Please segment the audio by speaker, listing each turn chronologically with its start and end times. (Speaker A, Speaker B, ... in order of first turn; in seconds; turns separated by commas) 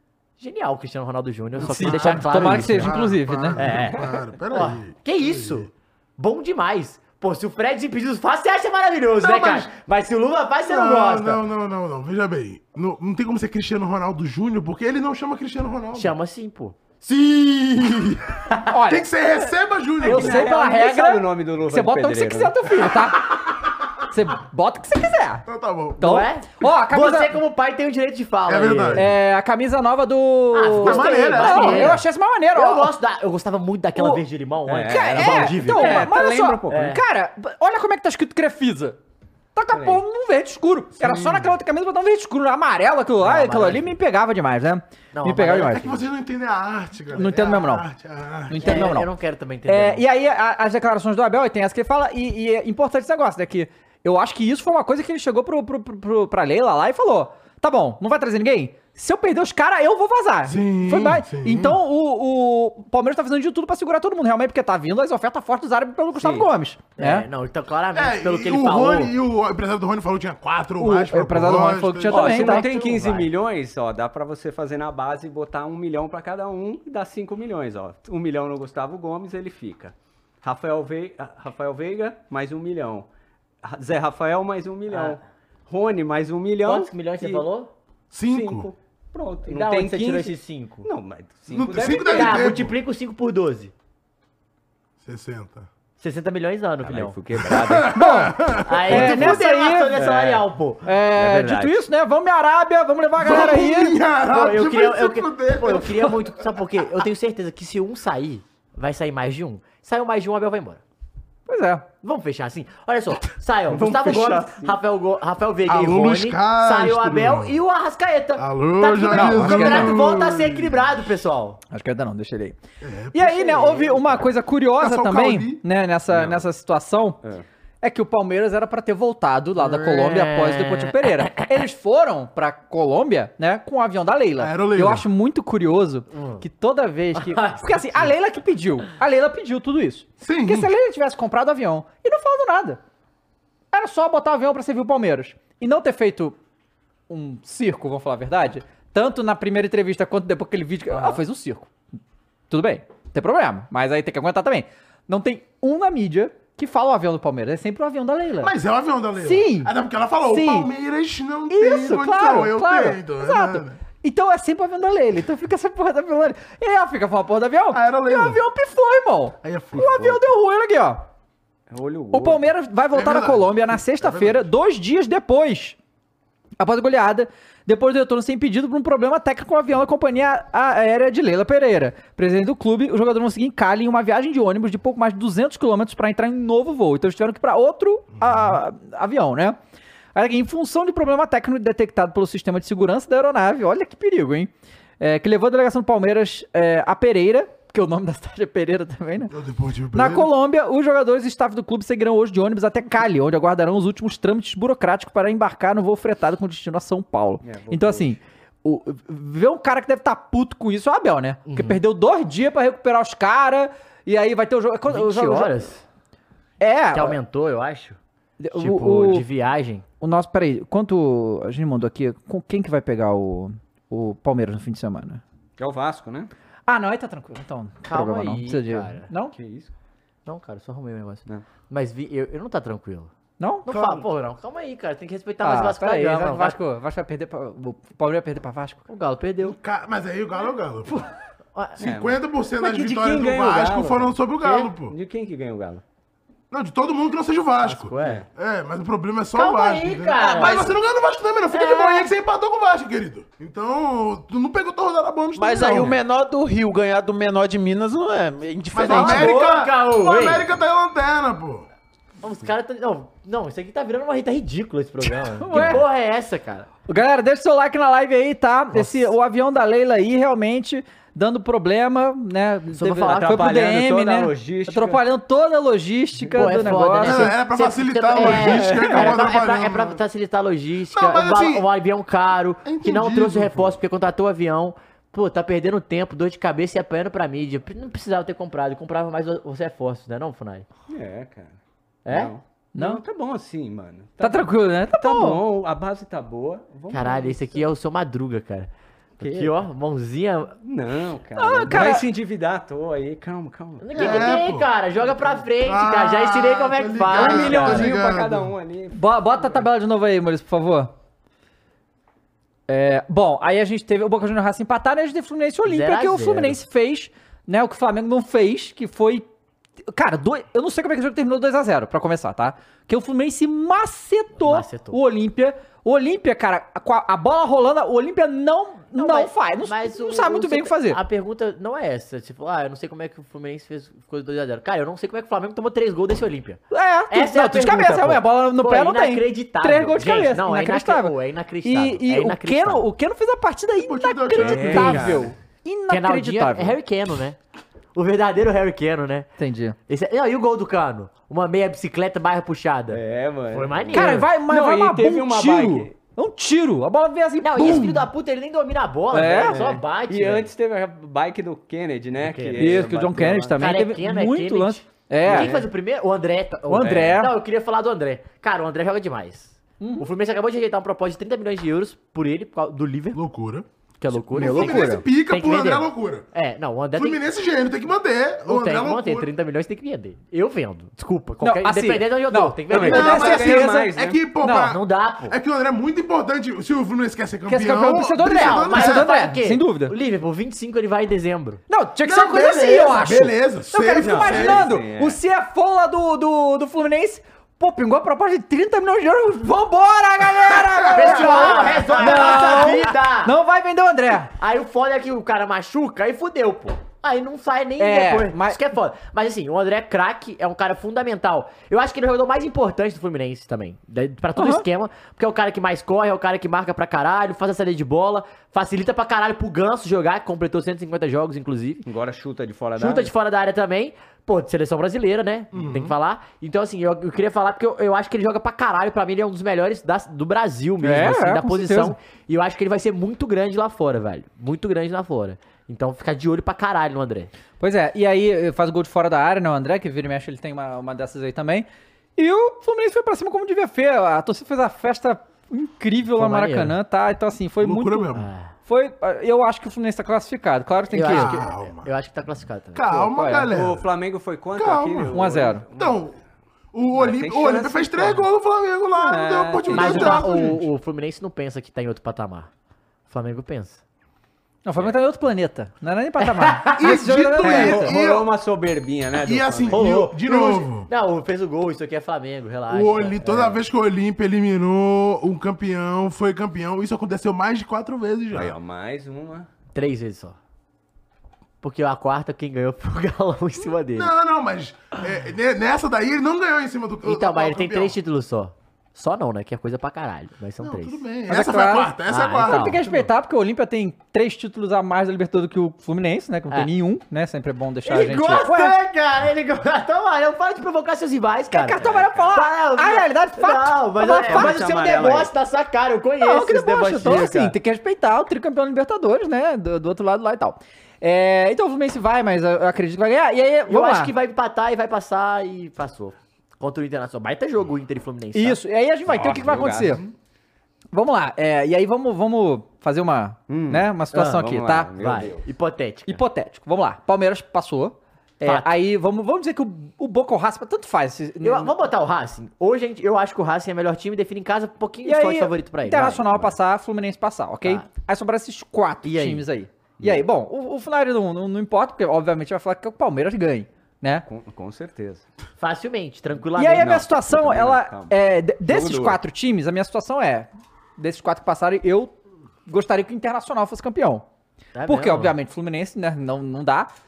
Speaker A: 0.4-3.0, Speaker B: 1.6-5.7, Speaker C: 1.6-3.7, Speaker A: 3.6-11.4, Speaker B: 9.2-9.7, Speaker B: 10.6-16.1, Speaker A: 15.9-17.1, Speaker B: 17.1-18.2, Speaker C: 18.7-19.4, Speaker B: 18.9-20.5, Speaker C: 20.0-23.4, Speaker D: 20.1-22.5, Speaker C: 24.1-25.5, Speaker B: 25.5-26.1, Speaker C: 26.0-27.4, Speaker A: 26.0-29.1, Speaker B: 28.5-29.1, Speaker C: 28.9-32.9, Speaker A: 30.5-36.1, Speaker B: 30.8-32.0, Speaker C: 34.0-34.2, Speaker D: 34.7-37.0, Speaker C: 34.9-39.0, Speaker A: 36.7-37.0, Speaker C: 39.5-45.8, Speaker D: 39.7-40.0, Speaker B: 41.0-41.4, Speaker A: 43.2-43.9, Speaker A: 45.1-46.0, Speaker B: 45.4-48.9, Speaker C: 47.1-47.9, Speaker C: 48.5-49.1, Speaker A: 48.5-50.0, Speaker C: 49.7-67.3, Speaker B: 60.5-61.8, Speaker D: 66.1-66.5, Speaker A: 67.0-69.1, Speaker B: 67.9-72.4, Speaker C: 70.8-72.7, Speaker D: 72.1-83.1, Speaker A: 72.2-73.3, Speaker D: 83.6-87.5, Speaker A: 84.9-85.2, Speaker A: 86.7-87.7, Speaker B: 88.1-88.7, Speaker D: 88.3-92.5, Speaker A: 89.5-90.9, Speaker B: 91.5-92.8, Speaker A: 92.0-93.7, Speaker B: 95.0-95.7, Speaker A: 96.0-97.2, Speaker D: 96.8-98.0, Speaker B: 97.5-99.4, Speaker C: 97.9-98.3, Speaker A: 98.6-100.8, Speaker C: 98.9-100.0, Speaker D: 99.9-100.5, Speaker C: 100.8-104.0, Speaker D: 101.2-101.8, Speaker B: 103.2-106.2, Speaker A: 104.3-110.8, Speaker C: 111.5-111.9, Speaker A: 112.0-121.6, Speaker D: 113.7-114.7, Speaker B: 115.7-117.6, Speaker B: 118.4-120.8, Speaker C: 119.1-120.0, Speaker C: 121.7-122.6, Speaker B: 122.8-124.2, Speaker C: 123.1-127.2, Speaker B: 124.8-125.7, Speaker D: 126.1-126.5, Speaker C: 127.8-142.8, Speaker A: 129.6-131.6, Speaker B: 134.4-135.1, Speaker A: 136.1-136.4, Speaker A: 137.2-137.8, Speaker B: 140.2-140.7, Speaker C: 143.7-146.4, Speaker C: 147.1-151.7, Speaker B: 150.9-151.2, Speaker C: 152.5-158.5, Speaker B: 158.4-163.8, Speaker C: 159.2-159.7, Speaker C: 160.2-160.7, Speaker C: 161.5-171.1, Speaker B: 167.7-168.4, Speaker B: 169.4-170.2, Speaker D: 171.7-172.4, Speaker C: 172.1-175.8, Speaker B: 172.9-174.5, Speaker C: 176.6-189.6, Speaker B: 188.2-188.6, Speaker C: 190.2-199.3, Speaker B: 199.3-200.3, Speaker C: 199.9-215.5, Speaker D: 207.4-208.2, Speaker A: 211.5-211.8, Speaker A: 214.9-215.8, Speaker C: 216.6-217.2, Speaker A: 216.9-218.0, Speaker C: 218.4-219.3, Speaker A: 218.5-219.8, Speaker C: 220.0-225.2, Speaker D: 225.6-226.3, Speaker C: 226.7-229.3, Speaker A: 227.9-229.1, Speaker D: 229.3-229.7, Speaker A: 230.3-233.1, Speaker C: 233.4-233.7, Speaker A: 233.7-236.6, Speaker D: 233.7-234.0, Speaker C: 235.4-238.8, Speaker A: 238.9-239.6, Speaker B: 239.4-241.0, Speaker A: 240.9-241.8, Speaker B: 241.8-245.0, Speaker D: 241.8-244.2, Speaker A: 244.4-244.7, Speaker D: 244.9-245.8, Speaker B: 246.5-256.0, Speaker A: 247.6-248.2, Speaker A: 249.3-250.8, Speaker A: 251.5-252.1, Speaker E: 255.4-259.2, Speaker B: 258.7-261.7, Speaker A: 258.8-260.5, Speaker C: 258.9-259.1, Speaker A: 262.2-266.7, Speaker C: 265.4-265.8, Speaker C: 266.9-277.3, Speaker A: 268.7-269.1, Speaker A: 272.8-273.5, Speaker D: 273.0-275.0, Speaker D: 276.2-276.7, Speaker A: 276.4-290.7, Speaker B: 277.0-280.0, Speaker D: 278.2-279.0, Speaker B: 280.9-281.7, Speaker B: 282.6-283.8, Speaker D: 290.9-297.7, Speaker A: 292.1-292.3, Speaker C: 292.8-293.0, Speaker C: 294.2-295.4, Speaker A: 296.9-300.6, Speaker D: 299.2-299.6, Speaker D: 300.6-304.3, Speaker C: 301.4-302.1, Speaker A: 303.8-307.9, Speaker B: 303.9-304.7, Speaker B: 305.6-308.5, Speaker D: 307.1-309.6, Speaker C: 308.9-310.9, Speaker C: 312.7-319.3, Speaker A: 315.7-316.6, Speaker C: 319.9-331.0, Speaker A: 324.4-325.0, Speaker A: 328.9-342.9, Speaker C: 336.7-346.8, Speaker B: 343.8-345.3, Speaker D: 344.3-345.3, Speaker A: 345.9-347.4, Speaker A: 347.9-349.3, Speaker C: 349.4-349.8, Speaker A: 349.9-354.3, Speaker D: 352.9-355.9, Speaker C: 353.9-357.9, Speaker A: 357.4-360.5, Speaker B: 357.6-357.9, Speaker C: 359.1-359.6, Speaker D: 359.5-363.6, Speaker A: 362.2-362.9, Speaker C: 362.6-365.5, Speaker A: 363.6-373.2, Speaker D: 365.3-365.7, Speaker C: 366.7-367.3, Speaker D: 366.8-367.2, Speaker C: 369.8-370.1, Speaker B: 373.1-373.7, Speaker A: 374.0-377.2, Speaker B: 374.3-376.3, Speaker C: 374.3-375.1, Speaker B: 376.9-379.3, Speaker A: 378.4-383.3, Speaker C: 381.4-384.7, Speaker D: 382.7-384.2, Speaker B: 382.7-389.1, Speaker A: 384.7-385.4, Speaker C: 387.5-389.9, Speaker A: 388.2-391.6, Speaker C: 391.7-404.3, Speaker B: 392.0-394.7, Speaker D: 394.0-395.2, Speaker B: 400.4-402.7, Speaker A: 400.9-403.4, Speaker A: 404.4-421.9, Speaker C: 407.8-408.6, Speaker C: 414.4-414.6, Speaker D: 421.9-423.1, Speaker A: 422.8-437.3, Speaker B: 425.5-425.9, Speaker C: 430.8-431.9, Speaker C: 437.6-448.1, Speaker A: 446.1-446.8, Speaker B: 447.6-448.3, Speaker A: 448.1-448.5, Speaker C: 448.7-451.4, Speaker A: 450.9-453.1, Speaker B: 451.0-451.9, Speaker B: 452.7-453.9, Speaker C: 453.1-453.5, Speaker D: 453.5-456.0, Speaker B: 454.5-456.2, Speaker C: 455.1-455.6, Speaker B: 456.7-460.7, Speaker D: 457.0-458.3, Speaker D: 458.9-460.0, Speaker A: 459.7-462.5, Speaker C: 459.7-460.3, Speaker A: 463.1-463.8, Speaker C: 464.6-467.9, Speaker A: 466.2-466.9, Speaker B: 466.8-468.3, Speaker D: 467.4-470.0, Speaker B: 469.2-470.9, Speaker A: 469.7-473.6, Speaker B: 472.7-478.6, Speaker D: 478.3-479.5, Speaker A: 479.7-480.4, Speaker A: 481.6-484.1, Speaker B: 483.9-488.0, Speaker A: 487.0-491.0, Speaker B: 490.6-493.1, Speaker C: 491.3-498.8, Speaker A: 492.1-492.8, Speaker A: 497.9-501.8, Speaker C: 501.5-504.8, Speaker D: 501.8-502.3, Speaker A: 502.3-507.6, Speaker D: 504.2-505.3, Speaker C: 506.2-514.1, Speaker A: 513.7-518.6, Speaker C: 518.3-520.0, Speaker D: 519.1-520.1, Speaker C: 520.9-524.9, Speaker D: 523.5-525.4, Speaker A: 524.1-524.4, Speaker A: 525.0-526.2, Speaker C: 526.1-531.7, Speaker A: 528.4-528.7, Speaker A: 531.4-536.5, Speaker C: 535.0-544.3, Speaker A: 539.0-539.5, Speaker D: 544.3-545.2, Speaker A: 545.6-547.0, Speaker C: 546.6-552.1, Speaker D: 546.8-549.2, Speaker C: 552.7-554.2, Speaker A: 554.7-555.4, Speaker C: 554.9-556.9